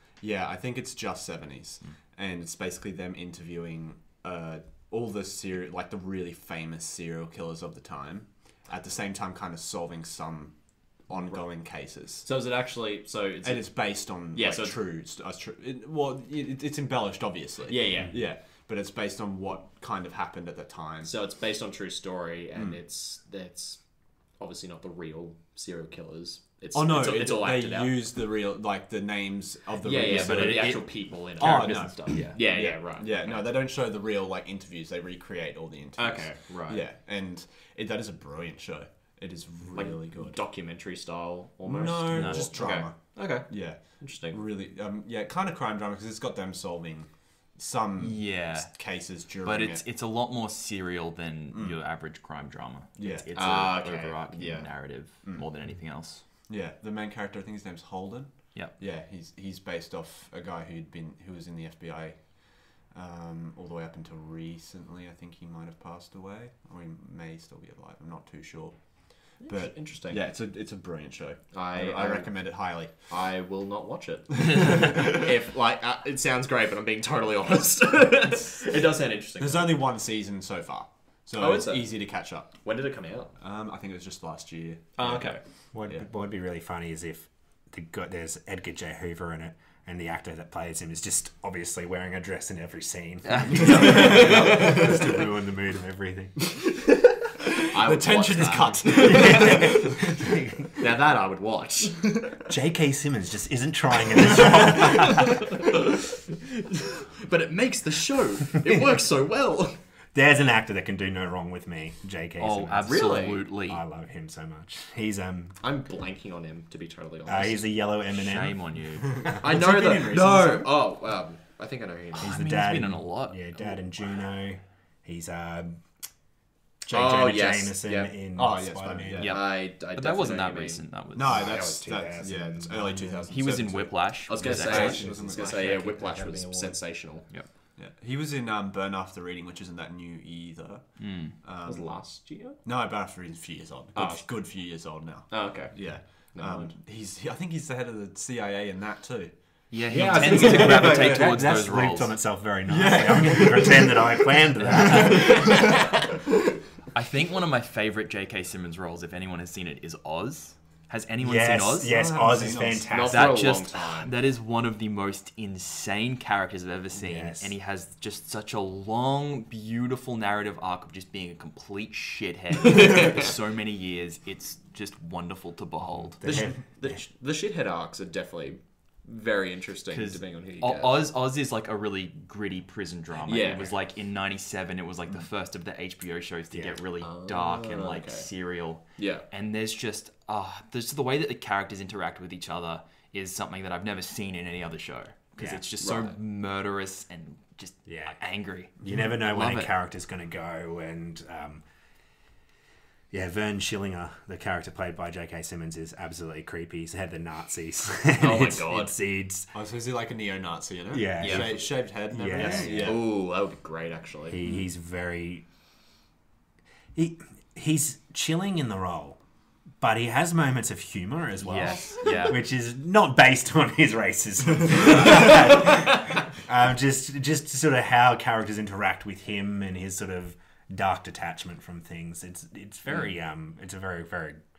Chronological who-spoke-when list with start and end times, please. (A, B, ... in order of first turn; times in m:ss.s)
0:00.2-0:12.3 A
0:12.2-0:14.8 B
0:13.4-0:21.1 A
0:17.7-0:18.2 B
0:21.0-0:23.8 B
0:24.4-0:27.9 B
0:26.7-0:30.8 A
0:29.8-0:33.5 B
0:30.0-0:32.3 C
0:31.4-0:40.4 A
0:36.0-0:36.8 B
0:39.7-0:44.4 B
0:41.6-0:49.8 A
0:42.1-0:42.5 C
0:48.0-0:56.3 C
0:51.5-0:51.8 A
0:53.0-0:53.3 A
0:53.3-0:54.7 B
0:56.3-1:13.1 A
1:09.4-1:10.2 B
1:11.5-1:19.8 B
1:14.5-1:15.2 A
1:19.4-1:22.9 A
1:21.4-1:23.3 B
1:23.4-1:26.0 A
1:25.0-1:25.4 B
1:25.7-1:36.6 D
1:33.3-1:34.9 C
1:33.8-1:35.0 A
1:37.7-1:39.8 B
1:37.7-1:40.3 A
1:39.0-1:40.7 D
1:40.8-1:42.0 B
1:42.5-1:45.7 D
1:45.2-1:46.0 B
1:46.6-1:49.8 B
1:50.1-1:55.6 D
1:52.4-1:53.8 C
1:52.9-1:53.4 B
1:55.6-1:57.7 B
1:57.3-1:59.4 D
1:58.1-1:59.4 C
1:59.1-2:00.7 A
1:59.4-2:02.4 B
2:02.2-2:03.6 C
2:02.2-2:05.8 D
2:06.8-2:09.3 D
2:06.9-2:08.1 B
2:08.4-2:09.3 A
2:09.2-2:11.7 C
2:09.2-2:10.8 B
2:11.2-2:15.8 A
2:11.2-2:13.3 D
2:13.3-2:15.0 C
2:14.3-2:17.3 B
2:14.4-2:16.8 D
2:17.8-2:21.9 A
2:21.0-2:21.4 C
2:21.6-2:22.6 B
2:22.6-2:31.4 A
2:24.0-2:24.3 B
2:25.3-2:26.7 B
2:29.7-2:32.1 C
2:29.9-2:31.1 B
2:29.9-2:35.8 D
2:32.7-2:35.7 A
2:34.6-2:35.8 C
2:36.9-2:42.0 C
2:41.2-2:43.4 D
2:41.8-2:42.9 A
2:42.9-2:44.1 B
2:43.1-2:56.3 C
2:47.0-2:47.5 D
2:52.8-2:53.1 B
2:56.2-2:57.0 D
2:56.2-3:01.1 B
2:59.9-3:19.7 C
3:03.3-3:03.7 B
3:06.5-3:06.8 D
3:07.0-3:08.3 B
3:09.0-3:09.2 B
3:15.4-3:15.6 D
3:15.8-3:16.2 B
3:17.9-3:18.2 D
3:18.8-3:21.6 D
3:23.1-3:29.5 D
3:28.2-3:28.9 B
3:29.5-3:33.0 A
3:30.9-3:33.0 D
3:31.2-3:31.6 B
3:32.2-3:34.4 B
3:34.3-3:35.4 D
3:37.0-3:39.2 D
3:39.8-3:54.4 D
3:41.4-3:42.4 C
3:42.0-3:42.3 B